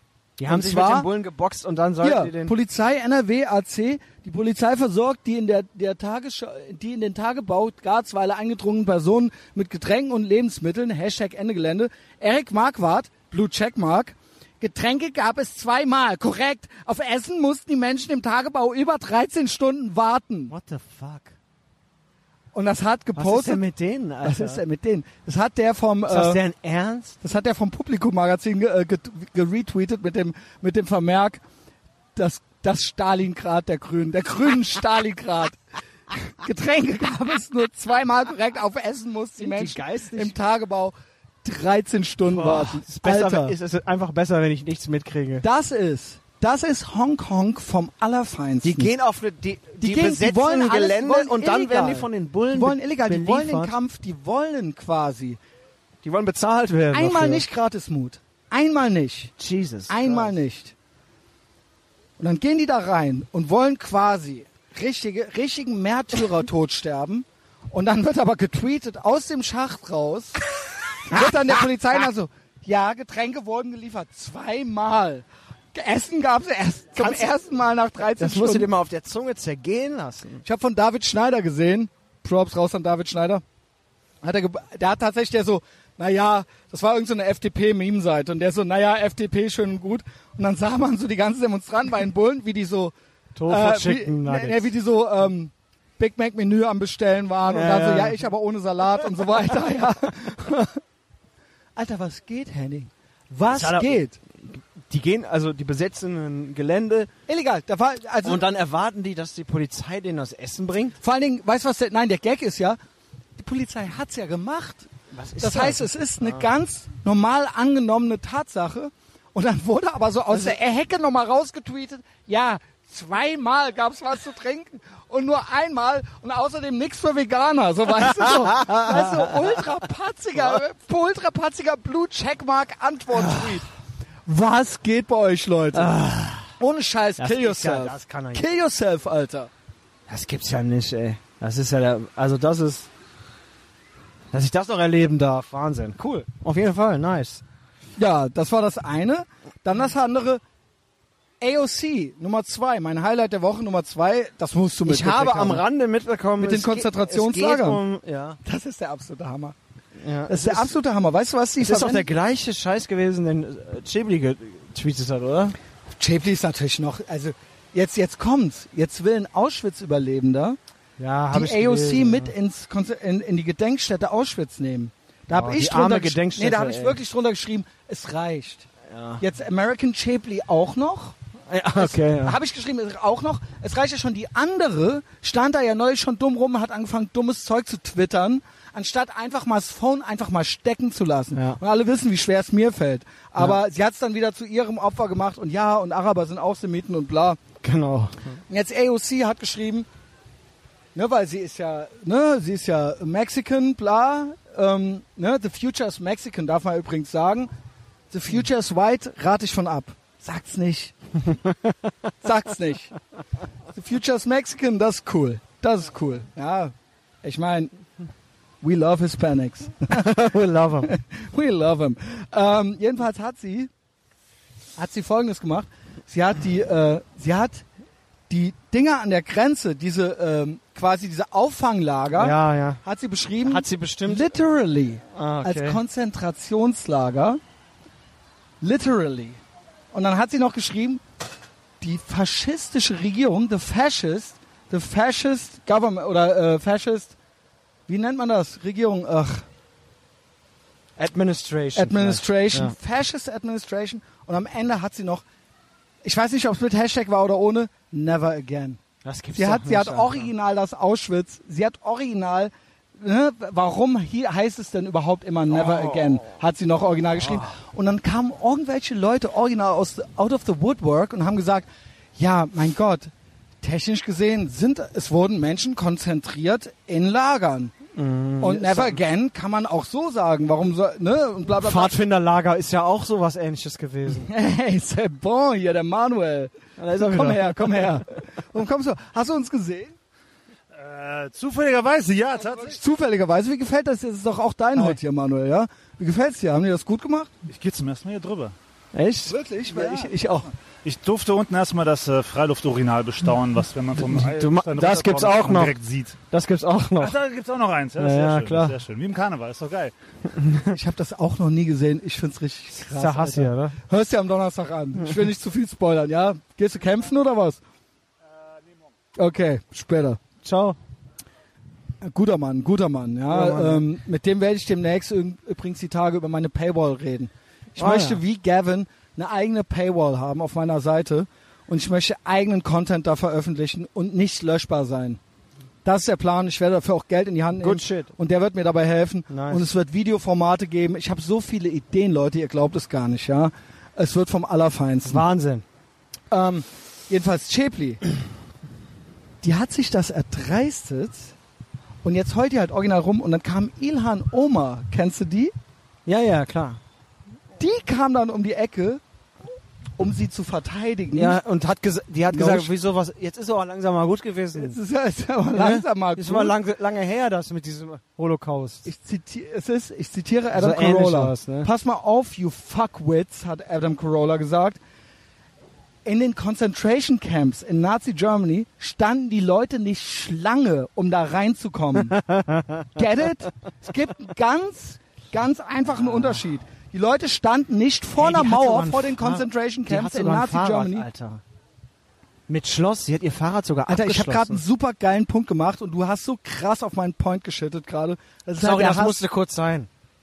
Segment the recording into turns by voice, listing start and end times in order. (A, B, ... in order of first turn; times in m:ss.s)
0:00.4-0:02.6 A
0:00.5-0:01.1 B
0:02.0-0:20.5 B
0:20.5-0:21.3 A
0:22.5-0:23.6 B
0:23.2-0:24.6 A
0:24.2-0:26.4 B
0:26.1-0:27.2 A
0:27.2-0:31.4 B
0:32.2-0:35.6 B
0:36.1-0:43.6 B
0:39.4-0:40.4 A
0:42.2-0:45.4 A
0:45.4-0:48.9 B
0:48.6-0:53.7 A
0:49.8-0:55.4 B
0:56.0-0:57.4 A
0:56.9-0:59.3 B
0:59.4-1:00.3 A
0:59.9-1:00.8 B
1:02.2-1:10.4 B
1:11.0-1:18.7 B
1:17.0-1:17.3 A
1:18.2-1:20.4 A
1:20.4-1:23.4 B
1:24.2-1:32.9 B
1:33.4-1:34.7 A
1:33.5-1:40.8 B
1:37.5-1:38.2 A
1:41.8-1:44.2 B
1:43.5-1:47.1 A
1:47.3-1:48.4 B
1:48.2-1:51.0 A
1:51.0-1:52.8 B
1:53.4-1:54.9 B
1:55.1-1:56.4 A
1:55.4-2:13.7 B
2:08.2-2:09.6 A
2:13.1-2:13.6 A
2:14.3-2:16.0 B
2:15.7-2:16.5 A
2:16.6-2:19.5 B
2:17.2-2:18.5 A
2:20.1-2:22.9 A
2:24.3-2:27.4 A
2:28.0-2:30.4 B
2:31.4-2:35.6 B
2:34.8-2:38.4 A
2:36.4-2:37.8 B
2:38.4-2:39.6 B
2:40.0-2:40.8 A
2:40.3-2:42.1 B
2:41.6-2:45.6 A
2:46.0-2:50.6 B
2:51.0-2:52.3 A
2:51.3-2:58.7 B
2:55.3-2:57.0 A
2:58.9-2:59.2 A
2:59.2-3:01.2 B
3:01.5-3:02.4 A
3:01.8-3:17.4 B
3:11.3-3:11.6 A
3:17.6-3:18.4 A
3:18.5-3:19.9 B
3:21.0-3:27.5 B
3:28.1-3:31.0 B
3:32.2-3:32.9 B
3:33.7-3:37.7 B
3:38.6-3:40.1 B
3:39.9-3:40.9 A
3:40.8-3:43.7 B
3:44.8-3:47.6 B
3:48.3-3:57.4 B
3:52.2-3:52.8 A
3:53.4-3:54.3 A
3:55.1-3:55.8 A
3:58.6-3:59.4 B
3:59.9-4:01.0 B
4:01.8-4:07.2 B
4:07.9-4:09.5 B
4:11.0-4:12.8 A
4:11.8-4:15.2 B
4:16.0-4:18.8 B
4:19.0-4:20.3 A
4:19.4-4:33.1 B
4:25.5-4:26.3 A
4:27.2-4:27.5 A
4:33.6-4:37.7 B
4:38.0-4:39.0 A
4:38.4-4:42.0 B
4:41.6-4:44.3 A
4:44.3-4:49.9 B
4:46.8-4:48.0 A
4:50.8-4:52.7 C
4:52.3-4:52.6 A
4:52.5-4:57.3 B
4:54.7-4:55.0 A
4:57.5-4:58.5 C
4:58.9-5:00.1 A
4:59.3-5:00.5 B
5:00.8-5:06.2 C
5:04.1-5:05.8 A
5:06.3-5:07.2 A
5:07.0-5:09.9 C
5:08.0-5:08.8 A
5:10.3-5:10.7 A
5:10.7-5:17.6 B
5:12.8-5:13.8 A
5:19.2-5:20.2 B
5:20.4-5:20.8 A
5:22.0-5:35.2 B
5:23.3-5:23.9 A
5:27.8-5:28.2 A
5:35.8-5:45.2 B
5:37.6-5:38.1 A
5:39.3-5:39.7 A
5:45.0-5:45.6 A
5:46.3-5:48.0 B
5:49.4-5:51.3 B
5:52.0-5:55.5 B
5:56.1-5:56.8 A
5:57.6-5:59.0 B
6:00.0-6:01.4 B
6:01.1-6:04.8 A
6:02.3-6:02.7 B
6:04.6-6:06.5 B
6:05.5-6:08.9 A
6:08.8-6:14.8 B
6:10.6-6:11.7 A
6:16.0-6:22.2 B
6:22.1-6:23.0 A
6:23.0-6:31.1 B
6:26.0-6:26.4 A
6:28.2-6:31.4 A
6:32.5-6:34.6 A
6:33.9-6:39.2 B
6:38.6-6:39.9 A